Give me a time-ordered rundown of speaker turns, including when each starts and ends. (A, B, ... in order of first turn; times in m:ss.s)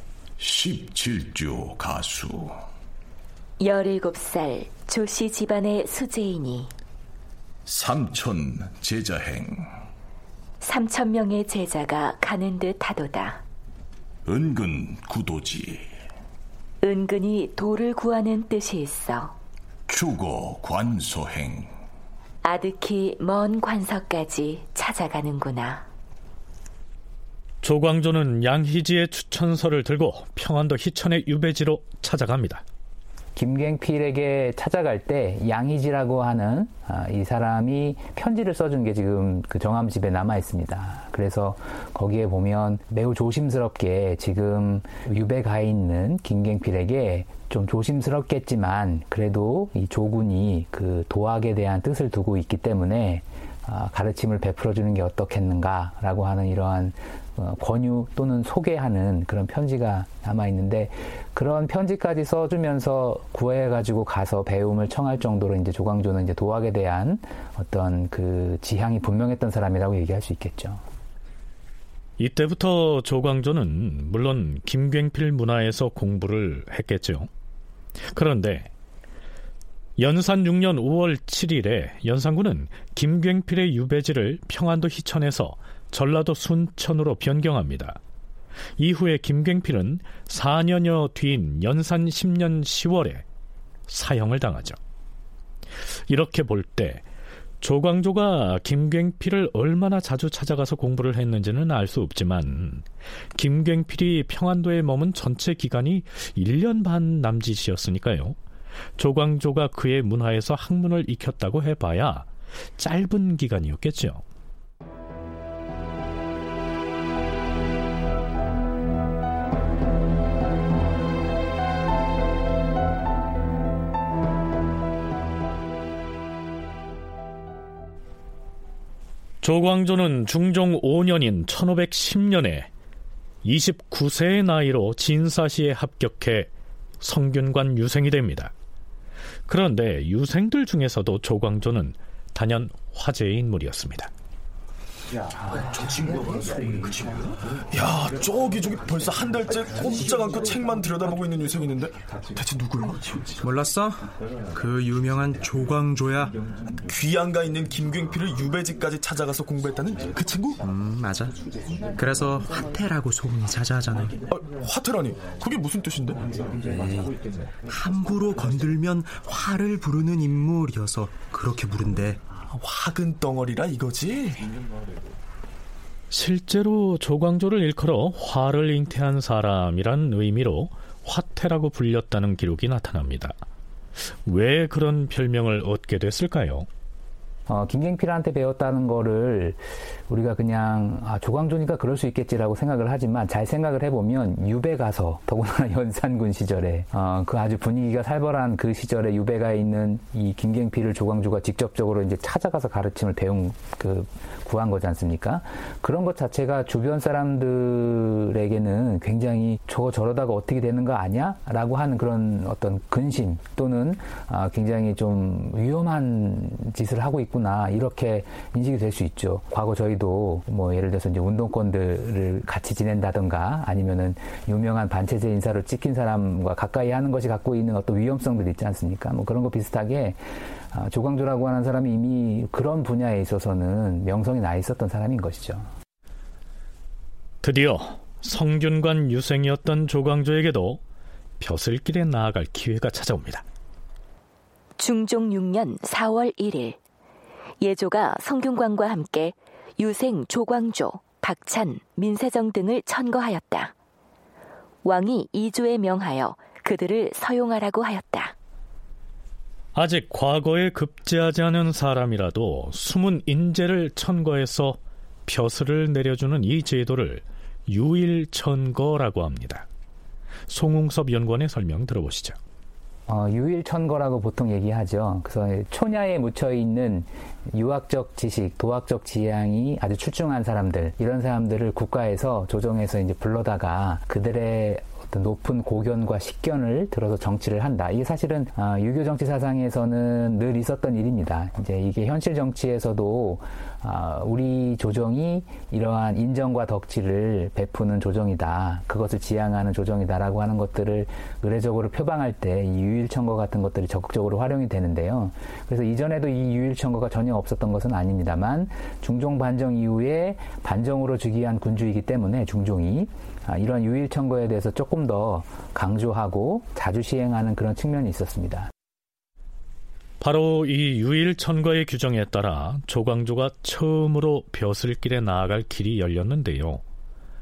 0:00.4-0:02.6 A
0:03.6-0:06.7 B
0:07.7-0:09.7 A
0:10.6-0:13.4 B
0:14.3-0:15.9 A
0:16.8-0:19.4 B
0:19.9-0:21.7 A
0:22.4-0:25.8 B
0:27.6-0:32.6 C
0:33.4-1:10.8 D
1:12.2-1:17.3 C
1:18.1-1:18.7 C
1:20.0-1:28.0 C
1:28.8-1:33.2 C
1:33.9-1:34.8 C
1:36.1-1:37.0 C
1:37.6-1:48.4 C
1:49.0-1:54.2 C
2:09.4-2:12.7 C
2:13.4-2:16.5 C
2:17.0-2:18.5 C
2:19.5-2:24.1 C
2:27.7-2:33.4 E
2:33.4-2:36.4 F
2:36.8-2:40.6 E
2:40.6-2:41.4 F
2:42.0-2:44.2 F
2:44.3-2:46.2 E
2:46.8-2:47.1 F
2:47.7-2:54.5 F
2:56.1-3:03.4 C
3:04.2-3:06.7 C
3:07.5-3:55.7 D
3:57.4-4:00.8 C
4:01.4-4:03.4 C
4:04.8-4:06.8 B
4:07.6-4:13.7 B
4:14.8-4:18.4 B
4:19.8-4:29.7 C
4:30.5-4:32.4 C
4:33.1-5:18.7 D
5:20.2-5:26.8 C